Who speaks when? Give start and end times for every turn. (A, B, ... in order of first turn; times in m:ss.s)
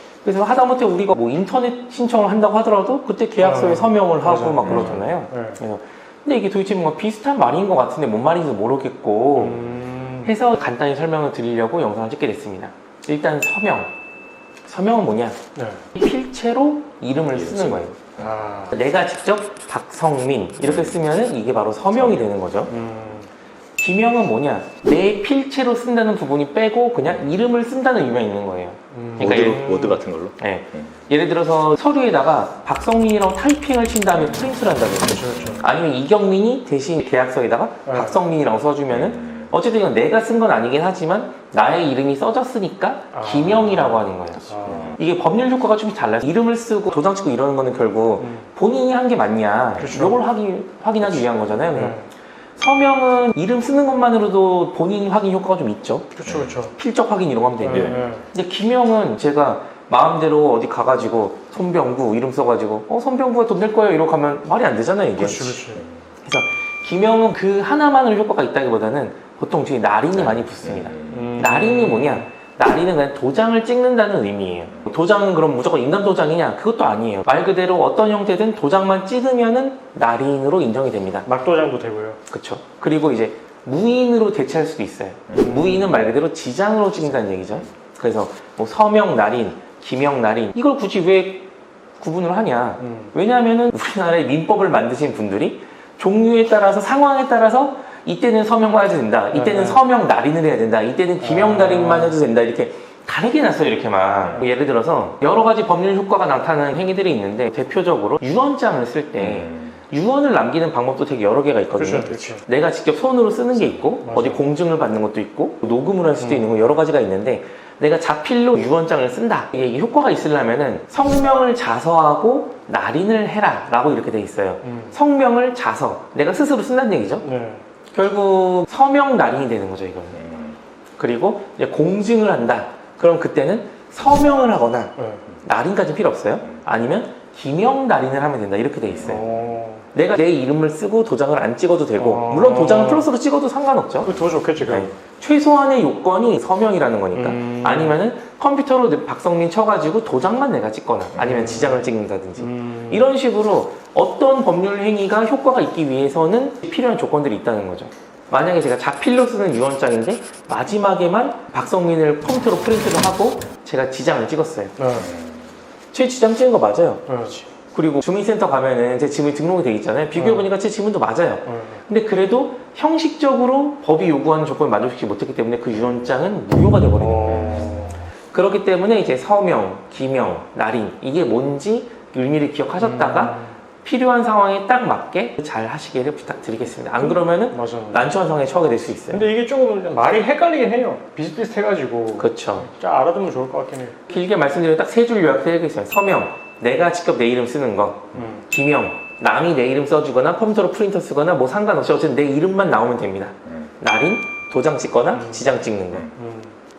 0:00.2-0:09.7 A
0:03.4-0:05.6 B
0:04.6-0:05.0 C
0:09.4-0:10.3 B
0:10.2-0:13.9 A
0:14.6-0:15.4 A
0:15.5-0:15.8 B
0:15.9-0:17.9 A
0:17.3-0:18.1 C
0:18.2-0:18.7 B
0:18.7-0:22.7 A
0:20.6-0:21.0 C
0:22.0-0:22.3 C
0:22.7-0:23.3 B
0:23.8-0:29.8 A
0:28.9-0:30.0 B
0:29.2-0:30.9 C
0:30.4-0:52.0 A
0:35.0-0:35.6 B
0:37.8-0:38.2 B
0:38.9-0:39.5 C
0:43.1-0:45.0 B
0:44.6-0:45.0 C
0:48.2-0:48.5 B
0:49.8-0:50.2 B
0:51.7-0:52.1 B
0:52.6-0:56.1 A
0:56.1-0:56.7 B
0:56.2-0:56.6 C
0:56.7-1:05.6 A
0:57.6-0:58.2 B
0:57.7-0:58.0 C
1:05.2-1:05.8 B
1:06.2-1:21.3 A
1:10.6-1:11.3 C
1:11.0-1:12.2 B
1:21.2-1:22.2 B
1:22.3-1:31.4 A
1:25.3-1:26.0 B
1:32.0-2:07.3 A
1:32.8-1:33.1 B
1:39.3-1:39.8 B
1:41.2-1:42.2 B
1:49.2-1:49.7 C
1:51.7-1:52.4 B
1:54.0-1:54.4 B
1:56.2-1:56.5 B
2:04.6-2:05.0 B
2:07.2-2:07.6 B
2:07.9-2:10.2 A
2:10.2-2:10.6 C
2:11.0-2:19.2 A
2:15.0-2:15.2 B
2:18.9-2:19.4 C
2:19.0-2:19.8 B
2:19.9-2:24.1 A
2:22.0-2:23.1 B
2:24.0-2:24.9 B
2:24.6-2:44.8 A
2:27.1-2:28.0 B
2:31.1-2:33.1 B
2:44.8-2:45.1 B
2:45.0-2:45.5 C
2:45.9-2:47.0 A
2:47.1-2:47.5 B
2:47.7-2:57.7 A
2:50.1-2:50.5 B
2:51.4-2:51.8 B
2:57.0-2:58.0 B
2:58.3-3:09.2 A
3:02.8-3:03.5 B
3:07.0-3:08.1 B
3:09.1-3:14.0 B
3:12.2-3:12.7 A
3:14.1-3:26.1 A
3:18.1-3:18.4 B
3:25.1-3:25.5 B
3:26.1-3:26.5 B